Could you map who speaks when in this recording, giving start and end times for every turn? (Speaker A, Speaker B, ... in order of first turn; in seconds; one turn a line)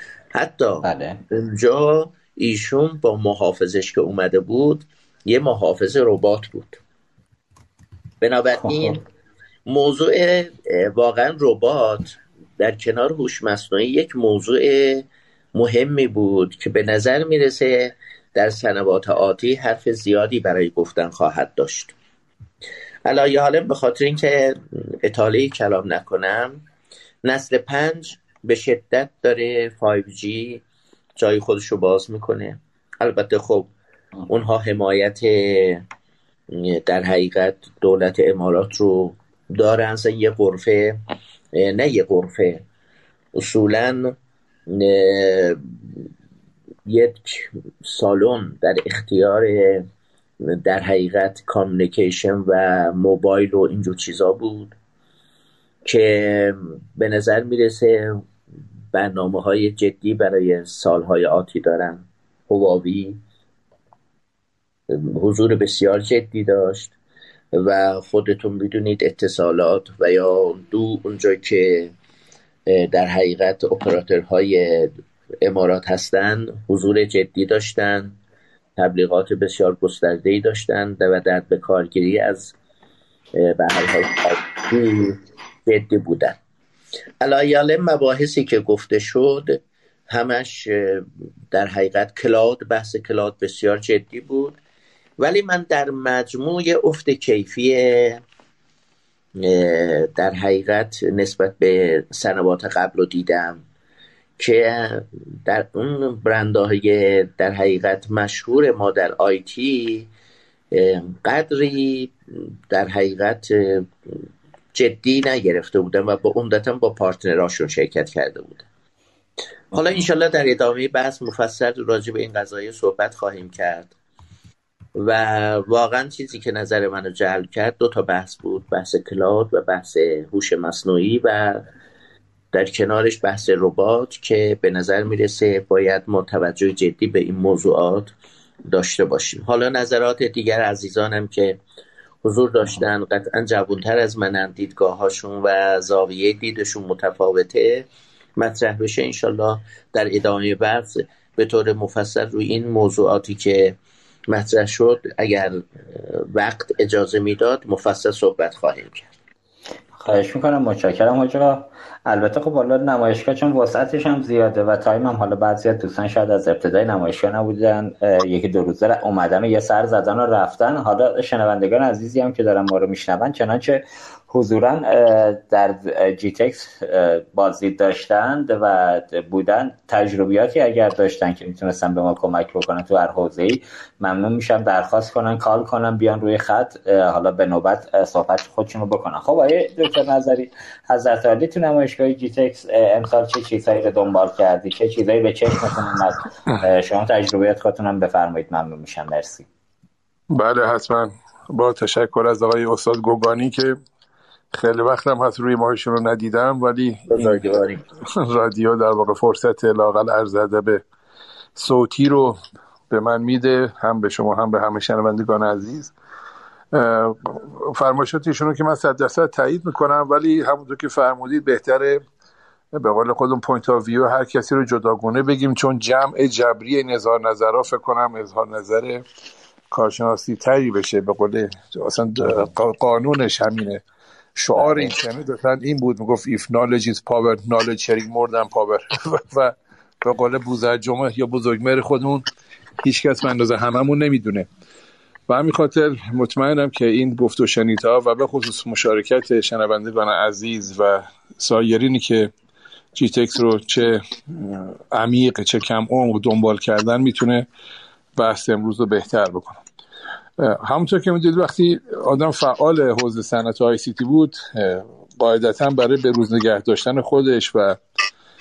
Speaker A: 0.3-6.8
Speaker B: 0.8-1.2
Speaker A: 8.2-9.0
Speaker B: 8.6-9.0
Speaker A: 9.7-21.9
Speaker A: 23.1-26.6
Speaker A: 27.2-30.6
Speaker A: 31.2-33.7
Speaker A: 34.3-35.8
Speaker A: 36.5-41.0
Speaker A: 41.5-42.6
Speaker A: 43.4-44.1
Speaker A: 44.7-46.0
Speaker A: 46.9-49.9
Speaker A: 50.4-54.7
Speaker A: 55.9-58.2
Speaker A: 58.9-63.2
Speaker A: 64.9-66.9
Speaker A: 67.5-71.9
Speaker A: 72.7-78.2
Speaker A: 78.8-82.5
Speaker A: 83.4-86.4
Speaker A: 87.2-94.6
Speaker A: 95.2-98.2
Speaker A: 99.4-103.6
Speaker A: 104.4-110.1
Speaker A: 110.7-113.9
Speaker A: 114.7-118.7
Speaker A: 119.7-123.9
Speaker A: 125.0-131.7
Speaker A: 132.5-138.1
Speaker A: 138.7-141.6
Speaker A: 142.2-153.8
Speaker A: 154.3-159.1
Speaker B: 160.0-199.5
Speaker C: 200.3-203.8
Speaker C: 204.5-207.4
Speaker A: 207.1-207.8
Speaker C: 208.2-210.8
Speaker C: 211.6-212.4
Speaker C: 212.9-215.9
Speaker C: 216.7-222.0
Speaker C: 222.7-229.0
Speaker C: 229.7-233.8
Speaker C: 234.4-242.3
Speaker B: 234.6-234.9
Speaker C: 242.8-244.5
Speaker C: 245.3-252.3
Speaker C: 252.9-257.5
Speaker C: 258.2-259.6
Speaker C: 260.4-267.8